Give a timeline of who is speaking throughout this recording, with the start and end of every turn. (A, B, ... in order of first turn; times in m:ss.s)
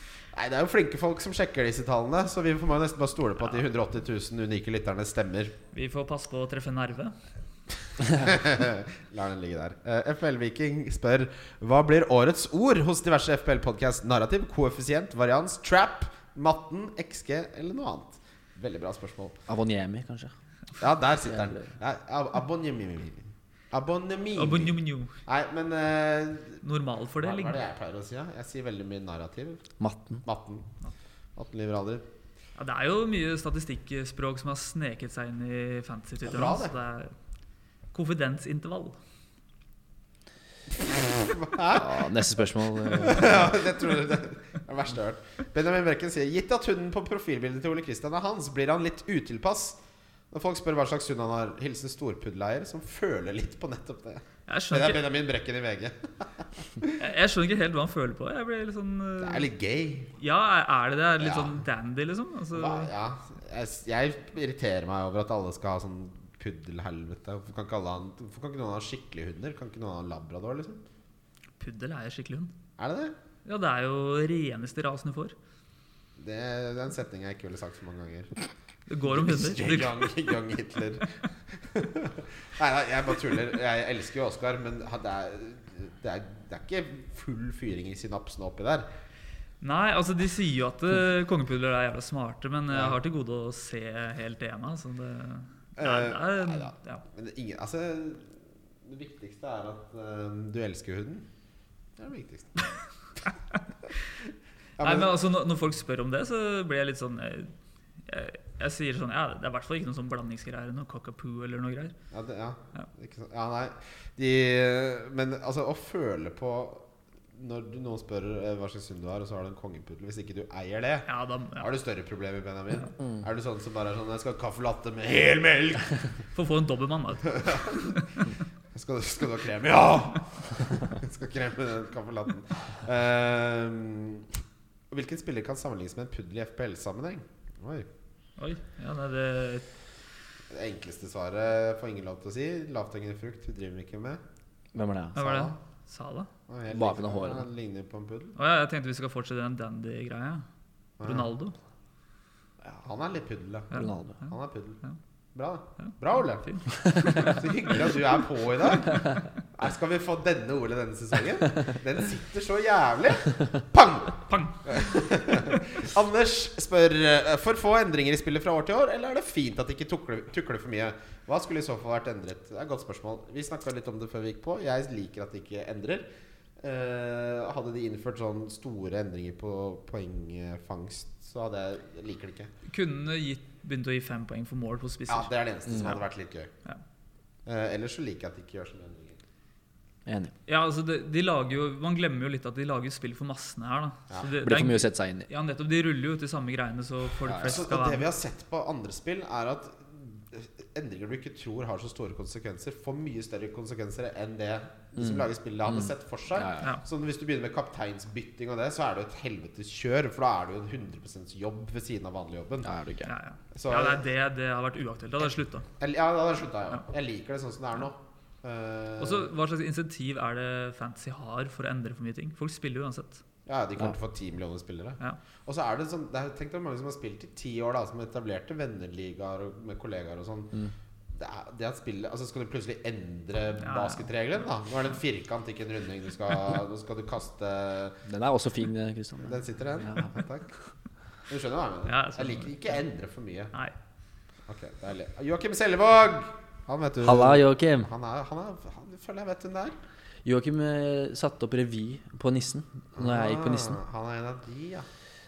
0:00.3-0:05.6 A
0:05.7-0:07.2 B
0:08.1-0:19.4 A
0:19.5-0:20.3 C
0:20.8-0:26.6 A
0:21.3-0:21.7 C
0:24.4-0:25.1 B
0:26.6-0:27.6 B
0:27.2-0:29.7 A
0:29.8-0:30.2 C
0:30.2-0:30.7 A
0:31.4-0:32.0 A
0:32.6-0:37.1 B
0:36.3-0:36.7 A
0:37.9-0:39.0 B
0:41.1-0:42.0 A
0:41.7-0:43.6 C
0:42.9-0:49.8 A
0:50.3-0:56.9 A
0:54.5-0:55.0 B
0:57.0-0:59.5 B
0:59.2-1:00.1 A
1:00.2-1:02.9 B
1:01.2-1:01.6 A
1:02.6-1:10.8 A
1:11.6-1:12.5 B
1:12.8-1:13.2 A
1:13.4-1:15.4 B
1:16.2-1:18.4 A
1:18.9-1:20.0 B
1:19.1-1:28.9 A
1:29.6-1:37.0 B
1:32.7-1:33.0 A
1:35.8-1:41.3 A
1:42.0-1:42.8 A
1:44.8-1:45.1 A
1:44.8-1:47.5 B
1:48.0-1:51.9 B
1:52.1-1:56.8 A
1:57.4-2:01.1 A
2:01.1-2:01.7 B
2:01.6-2:05.9 A
2:06.3-2:08.3 B
2:07.3-2:07.9 A
2:08.7-2:14.3 A
2:14.9-2:17.9 A
2:18.4-2:19.6 B
2:20.5-2:24.2 A
2:24.7-2:25.2 C
2:25.2-2:26.3 B
2:25.2-2:25.6 A
2:26.5-2:28.4 A
2:26.7-2:27.5 C
2:28.4-2:30.5 B
2:31.0-2:31.3 A
2:31.0-2:31.6 B
2:32.8-2:33.7 A
2:33.7-2:34.1 C
2:33.7-2:34.3 B
2:34.3-2:34.8 A
2:35.4-2:56.0 A
2:36.4-2:37.4 B
2:44.3-2:44.8 B
2:56.6-3:02.5 A
3:02.7-3:06.0 B
3:05.1-3:06.5 A
3:07.5-3:09.2 A
3:10.1-3:10.3 C
3:10.5-3:18.1 B
3:14.4-3:15.3 C
3:17.3-3:17.5 C
3:17.4-3:32.7 A
3:25.0-3:26.8 C
3:32.6-3:33.1 C
3:33.0-3:35.7 B
3:33.5-3:34.0 A
3:35.8-3:39.3 A
3:39.0-3:43.2 B
3:43.5-3:50.6 A
3:51.1-3:58.0 A
3:53.6-3:54.1 B
3:58.0-4:00.1 C
3:59.3-4:00.5 A
4:01.3-4:03.5 A
4:01.9-4:02.8 B
4:04.5-4:09.8 A
4:07.0-4:07.9 C
4:10.2-4:13.8 C
4:13.0-4:14.9 A